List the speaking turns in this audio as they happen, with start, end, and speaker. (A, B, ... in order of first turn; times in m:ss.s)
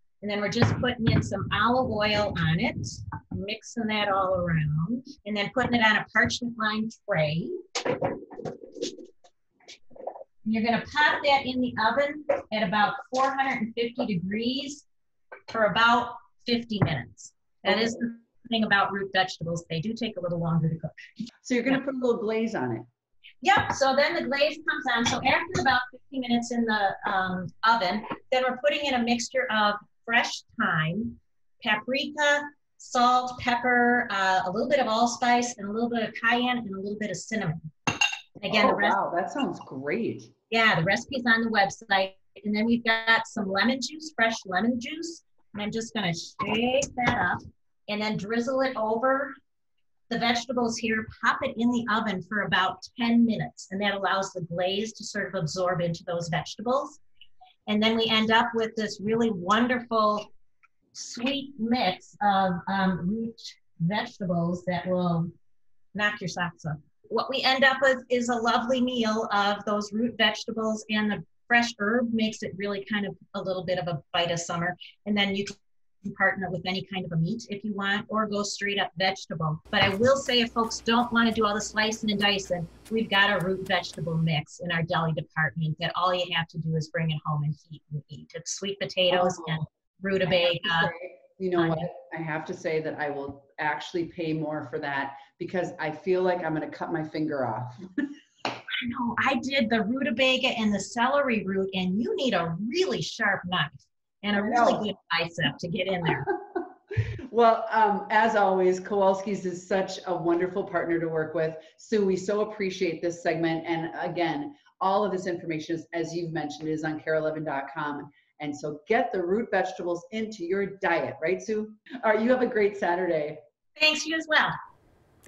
0:00.2-0:08.8 A
0:10.4-0:14.8 A
0:15.5-0:21.0 A
0:21.4-0:22.8 B
0:23.4-0:37.7 A
0:38.4-0:39.0 A
0:38.5-0:40.3 B
0:40.5-0:49.3 A
0:50.1-0:57.0 A
0:57.7-1:00.3 A
1:00.9-1:05.3 A
1:05.9-1:30.9 A
1:29.1-1:29.6 B
1:30.3-1:38.1 B
1:31.6-1:31.9 A
1:38.8-1:46.3 A
1:44.3-1:44.9 B
1:47.3-2:03.4 B
2:03.8-2:04.5 A